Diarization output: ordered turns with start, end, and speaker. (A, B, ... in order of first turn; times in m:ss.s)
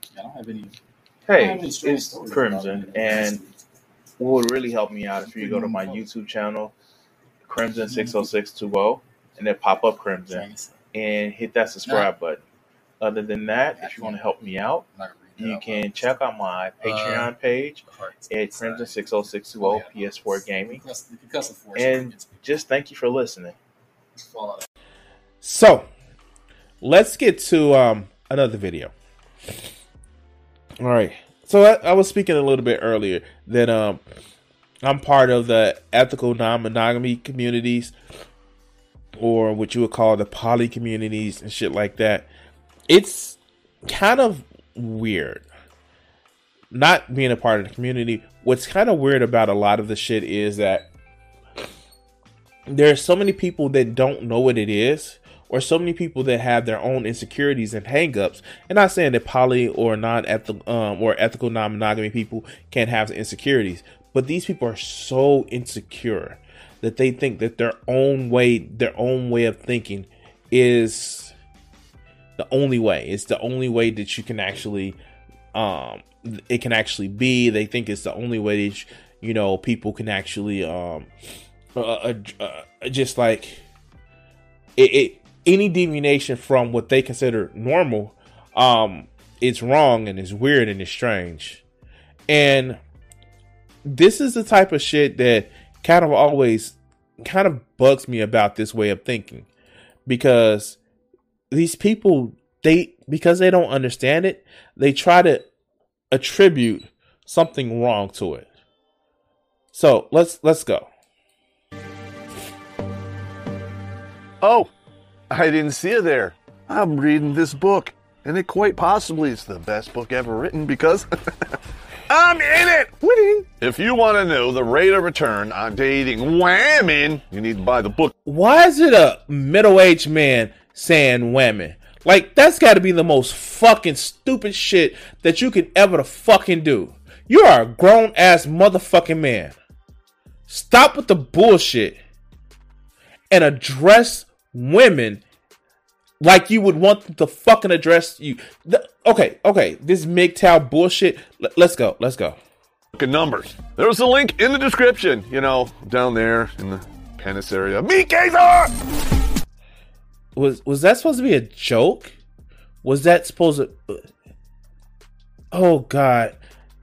0:00.1-0:00.8 A
0:01.3-0:03.4 B
0:01.4-0:03.5 A
0:04.2-0:06.8 B
0:05.2-0:06.1 A
0:07.5-0:12.4 B
0:07.8-0:08.3 A
0:10.3-0:10.8 A
0:13.0-0:14.9 B
0:13.8-0:14.3 A
0:14.9-0:16.1 A
0:15.4-0:20.8 B
0:16.8-0:17.3 A
0:17.9-0:22.4 A
0:21.8-0:23.6 B
0:24.2-0:24.6 A
0:25.4-0:25.9 C
0:26.8-0:28.9 C
0:30.8-0:34.0 C
0:34.8-0:38.0 C
0:39.2-0:42.3 C
0:42.9-0:45.5 C
0:46.7-0:50.9 C
0:52.7-1:11.3 C
1:12.4-1:15.0 C
1:15.5-1:21.1 C
1:21.8-1:23.6 C
1:24.8-1:31.6 C
1:32.3-1:32.8 C
1:33.8-1:39.5 C
1:40.1-1:40.8 C
1:41.5-1:45.5 C
1:46.1-1:48.5 C
1:49.7-1:50.9 C
1:54.4-1:54.7 D
1:55.3-2:01.1 D
2:02.1-2:08.1 D
2:08.3-2:19.6 C
2:20.5-2:22.0 C
2:23.3-2:25.2 C
2:26.2-2:32.4 C
2:32.9-2:38.7 D
2:40.4-2:42.2 C
2:42.8-2:44.1 C
2:45.5-2:46.4 C